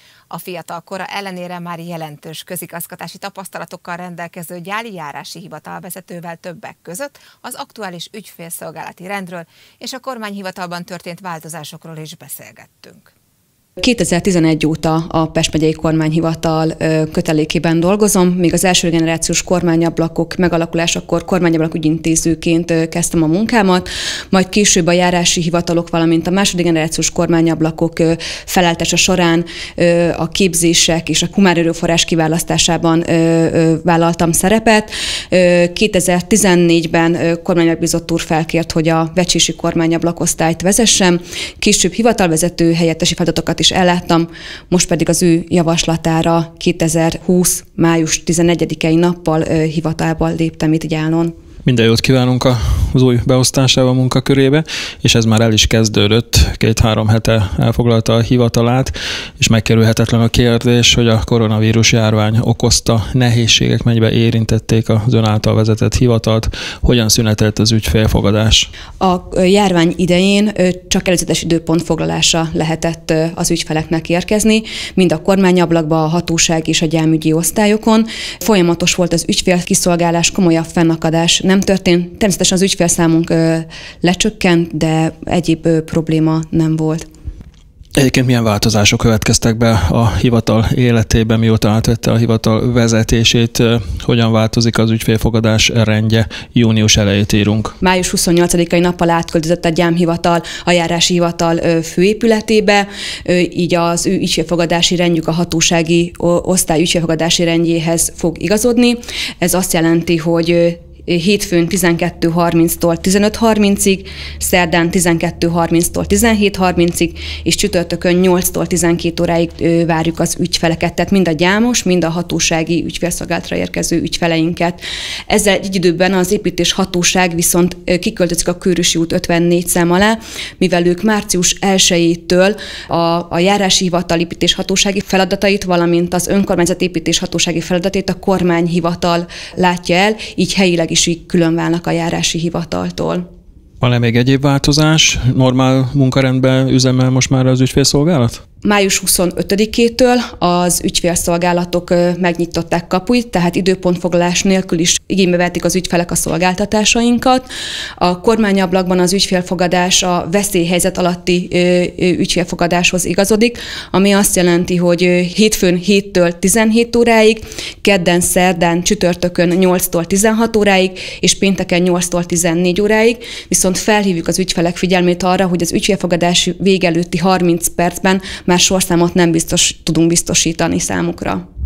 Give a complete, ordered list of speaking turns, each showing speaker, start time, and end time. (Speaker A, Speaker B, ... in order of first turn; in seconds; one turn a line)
Speaker A: 0.3-13.1
Speaker B: 13.8-51.3
Speaker C: 51.6-68.7
Speaker B: 69.0-87.1
Speaker C: 88.0-97.8
Speaker B: 97.8-143.2
Speaker C: 143.8-148.4
Speaker B: 148.6-181.4